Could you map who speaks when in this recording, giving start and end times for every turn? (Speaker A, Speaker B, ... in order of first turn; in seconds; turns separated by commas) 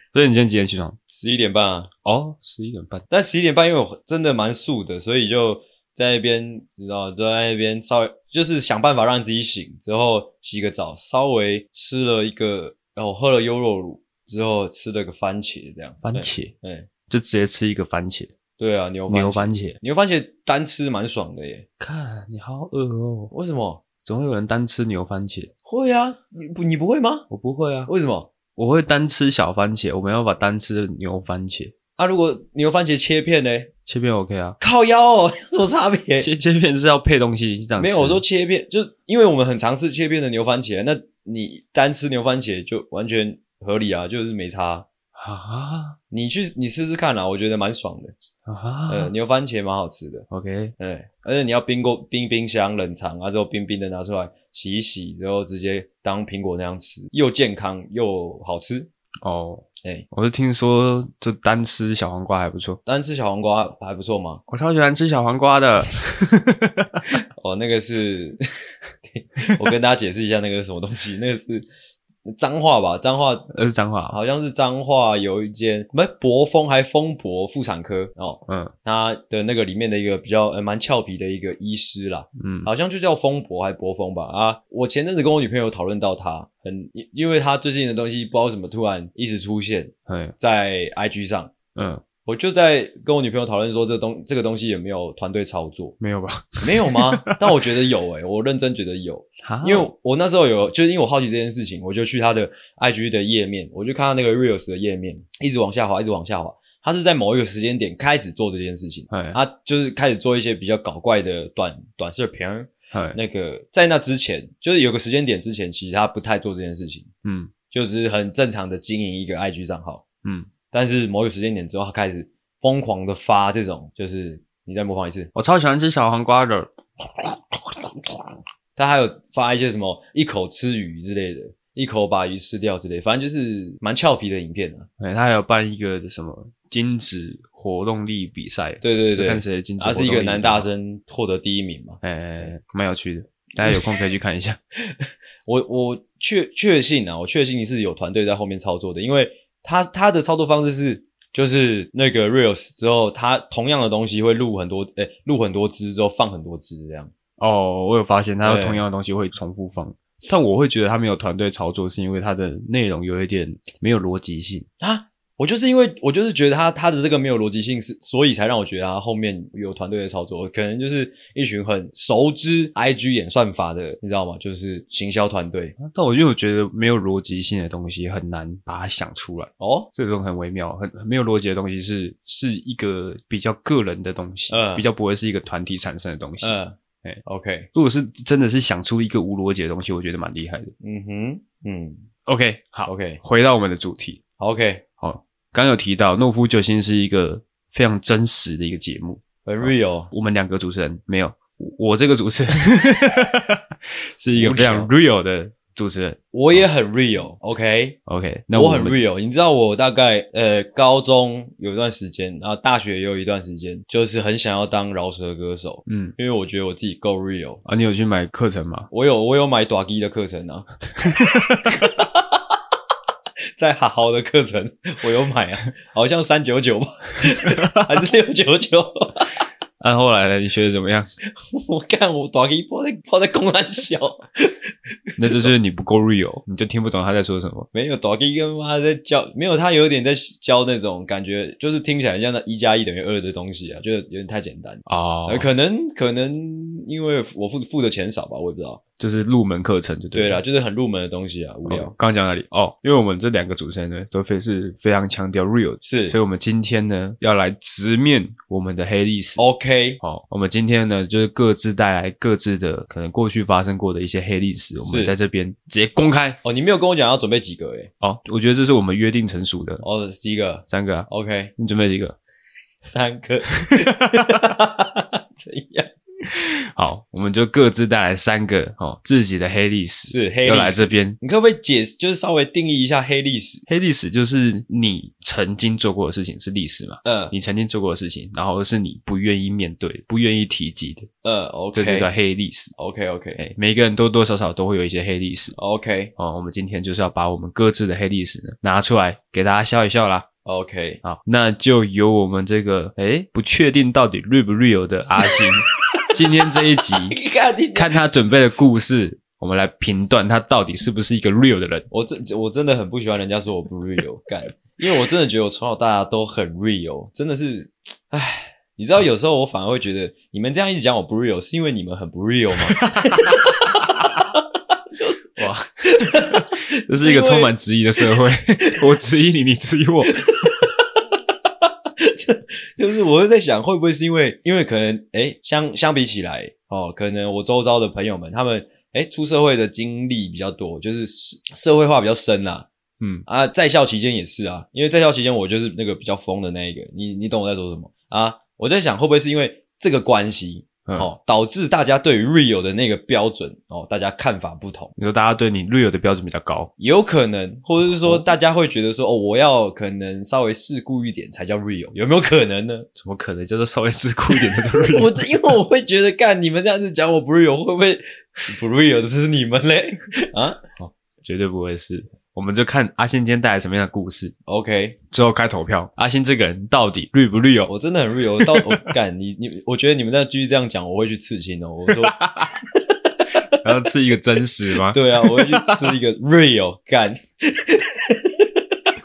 Speaker A: 0.1-1.0, Speaker B: 1.1-1.9, Speaker A: 2.0-3.1, Speaker B: 3.1-16.9, Speaker A: 16.0-16.5, Speaker A: 17.1-18.3, Speaker B: 18.6-21.7, Speaker A: 19.1-19.8, Speaker A: 21.8-23.3, Speaker B: 23.3-23.8, Speaker A: 24.0-25.5, Speaker B: 25.6-27.3, Speaker A: 27.3-27.9, Speaker B: 27.9-28.3, Speaker A: 28.6-31.7, Speaker B: 32.0-33.7, Speaker A: 33.9-34.6, Speaker B: 34.6-36.3, Speaker A: 36.2-38.2, Speaker B: 37.8-44.9, Speaker A: 45.2-46.0, Speaker B: 46.1-48.1, Speaker A: 48.5-49.1, Speaker B: 48.9-58.9, Speaker A: 50.3-50.8, Speaker A: 59.2-62.8, Speaker B: 62.9-64.4, Speaker A: 64.5-67.1, Speaker B: 67.4-68.4, Speaker B: 69.0-71.7, Speaker B: 72.3-73.5, Speaker A: 73.5-74.2, Speaker B: 74.1-91.5, Speaker A: 78.5-78.7, Speaker A: 82.4-82.7, Speaker A: 90.1-90.3, Speaker A: 91.8-92.0, Speaker B: 92.2-96.0, Speaker A: 96.0-97.7, Speaker B: 96.6-117.1, Speaker A: 99.4-99.9, Speaker A: 109.1-109.4, Speaker A: 112.9-113.2, Speaker A: 117.2-117.5, Speaker B: 117.7-120.0, Speaker A: 120.2-120.5, Speaker B: 120.7-125.3, Speaker A: 125.3-128.2, Speaker B: 128.8-134.9, Speaker A: 135.0-140.7, Speaker B: 138.8-142.5, Speaker A: 142.0-144.6, Speaker B: 144.9-157.1, Speaker A: 157.4-164.7, Speaker B: 158.4-158.8, Speaker B: 164.8-175.8, Speaker A: 175.8-187.2, Speaker B: 179.6-179.9, Speaker B: 184.5-184.9, Speaker B: 186.4-187.7, Speaker A: 187.7-190.7, Speaker B: 190.8-192.1, Speaker A: 192.3-194.2, Speaker B: 192.9-193.2, Speaker B: 194.4-194.8, Speaker A: 195.0-206.6, Speaker B: 199.4-200.1, Speaker B: 204.3-204.9, Speaker B: 206.3-208.0, Speaker A: 208.1-209.0, Speaker B: 208.5-217.6, Speaker A: 215.9-216.1, Speaker A: 217.7-218.9, Speaker B: 218.9-220.7, Speaker A: 221.0-221.8, Speaker B: 221.5-222.4, Speaker B: 223.6-229.4, Speaker A: 227.4-227.9, Speaker A: 229.8-231.1, Speaker B: 231.4-235.5, Speaker A: 235.2-237.7, Speaker B: 237.7-248.8, Speaker A: 244.9-245.5, Speaker A: 249.0-250.4, Speaker B: 250.1-251.9, Speaker A: 251.7-259.4, Speaker B: 255.8-256.2, Speaker B: 259.4-260.0, Speaker A: 260.0-266.4, Speaker B: 264.8-265.1, Speaker B: 266.4-267.9, Speaker A: 268.0-269.8, Speaker B: 269.8-271.5, Speaker A: 270.7-272.2, Speaker B: 272.8-275.9, Speaker A: 273.6-274.4, Speaker A: 276.3-281.2, Speaker B: 280.1-283.6, Speaker A: 283.7-291.1, Speaker B: 287.0-287.3, Speaker B: 291.2-292.1, Speaker A: 291.7-292.7, Speaker B: 292.8-293.4, Speaker A: 293.4-295.6, Speaker B: 295.6-296.1, Speaker A: 296.2-300.3, Speaker B: 300.4-301.0, Speaker A: 301.0-307.2, Speaker B: 305.9-308.0, Speaker A: 307.8-311.9, Speaker B: 311.9-325.3, Speaker A: 322.7-324.0, Speaker A: 325.4-330.3, Speaker B: 325.9-327.5, Speaker B: 330.1-330.9, Speaker B: 331.7-342.7, Speaker B: 343.2-354.9, Speaker A: 355.0-356.7, Speaker B: 356.8-362.9, Speaker A: 357.9-358.3, Speaker A: 363.0-365.5, Speaker B: 364.4-370.9, Speaker A: 371.2-374.3, Speaker B: 374.5-375.0, Speaker A: 375.1-377.7, Speaker B: 377.7-383.6, Speaker A: 378.3-378.9, Speaker A: 381.9-382.5, Speaker A: 383.5-386.0, Speaker B: 384.9-388.6